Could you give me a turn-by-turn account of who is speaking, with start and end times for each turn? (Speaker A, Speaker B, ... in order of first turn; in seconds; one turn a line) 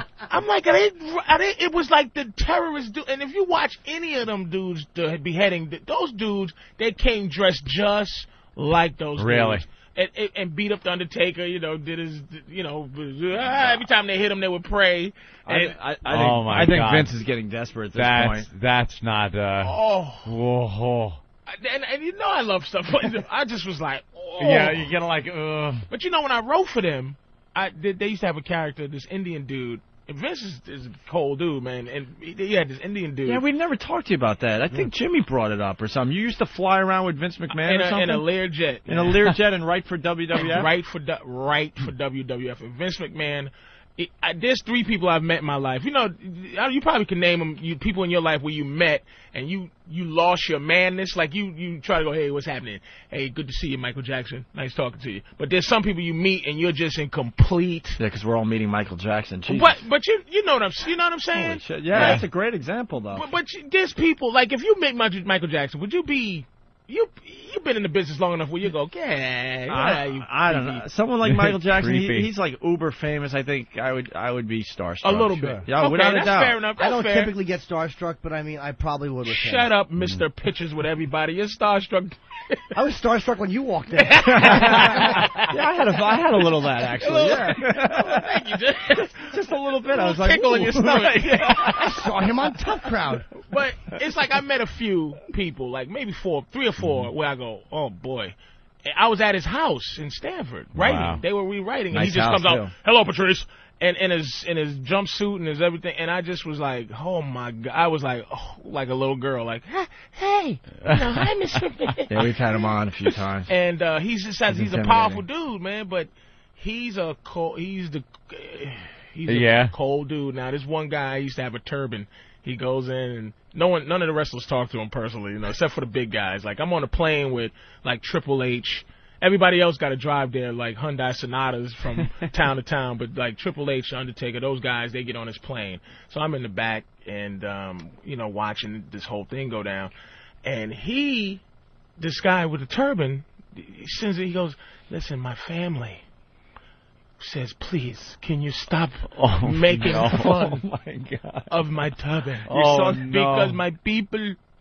Speaker A: 0.3-15.7
Speaker B: 9.2-9.7
Speaker C: 15.5-18.5
Speaker B: 16.1-17.1
Speaker B: 17.9-21.2
Speaker A: 19.6-20.4
Speaker A: 21.5-24.9
Speaker B: 24.4-25.9
Speaker A: 25.9-33.4
Speaker C: 33.2-38.3
Speaker A: 37.6-39.3
Speaker C: 38.9-40.7
Speaker A: 40.4-58.0
Speaker C: 58.0-59.8
Speaker A: 59.5-62.2
Speaker C: 61.3-63.3
Speaker B: 61.9-62.2
Speaker A: 63.1-70.8
Speaker C: 69.7-76.6
Speaker B: 71.2-72.3
Speaker A: 75.0-77.3
Speaker D: 76.8-79.7
Speaker A: 79.3-82.8
Speaker B: 80.0-80.2
Speaker D: 82.8-85.2
Speaker A: 84.0-85.5
Speaker C: 84.3-88.3
Speaker A: 86.8-89.3
Speaker C: 88.9-92.1
Speaker A: 89.9-91.8
Speaker D: 91.7-93.3
Speaker A: 93.5-112.7
Speaker B: 100.8-101.2
Speaker C: 101.9-102.7
Speaker B: 110.8-111.3
Speaker C: 112.1-113.5
Speaker A: 113.5-139.9
Speaker C: 114.5-115.2
Speaker B: 119.3-119.7
Speaker A: 140.4-141.4
Speaker A: 142.0-146.0
Speaker A: 147.2-150.6
Speaker B: 149.1-150.3
Speaker C: 149.8-151.5
Speaker A: 151.5-154.4
Speaker B: 152.5-153.6
Speaker C: 152.5-153.1